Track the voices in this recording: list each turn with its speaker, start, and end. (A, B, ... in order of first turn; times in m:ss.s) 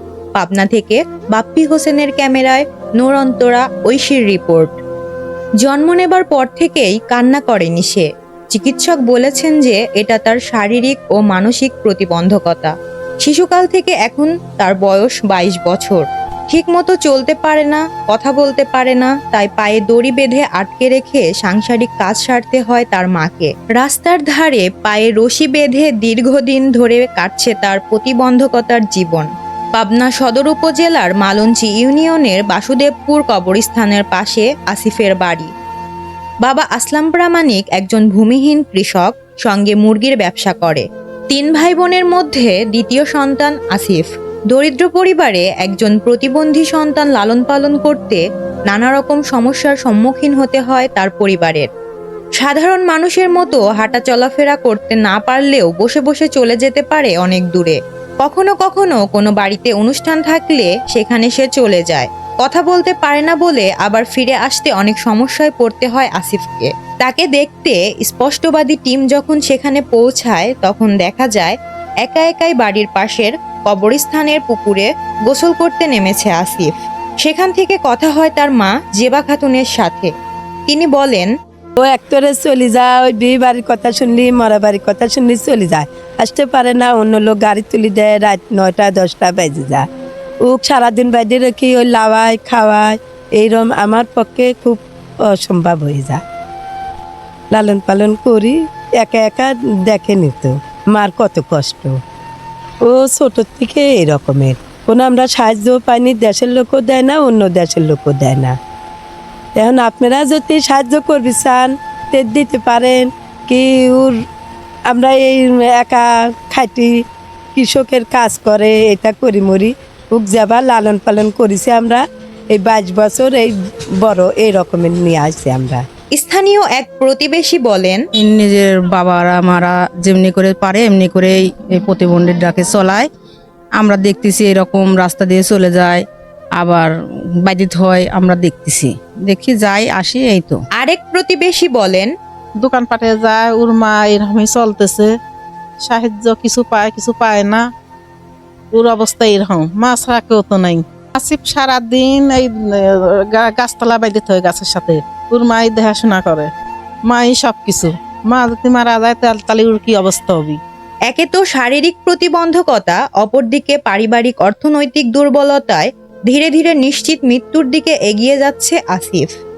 0:00.4-0:04.8 A
0:05.6-0:35.5 A
0:36.4-0:51.7 A
0:52.4-1:20.1 A
1:20.7-1:21.3 A
1:21.8-1:29.8 B
1:30.4-1:36.2 B
1:37.5-1:42.0 B
1:42.8-1:48.5 B
1:49.6-1:54.1 B
1:54.9-1:57.0 B
1:57.5-2:02.0 B
2:02.5-2:05.8 B
2:06.1-2:08.0 A
2:08.2-2:13.1 C
2:13.8-2:16.0 C
2:16.6-2:16.9 C
2:17.4-2:20.6 C
2:20.8-2:22.1 A
2:22.6-2:25.1 D
2:25.8-2:27.6 D
2:28.7-2:36.5 D
2:37.1-2:40.6 D
2:41.1-2:49.3 A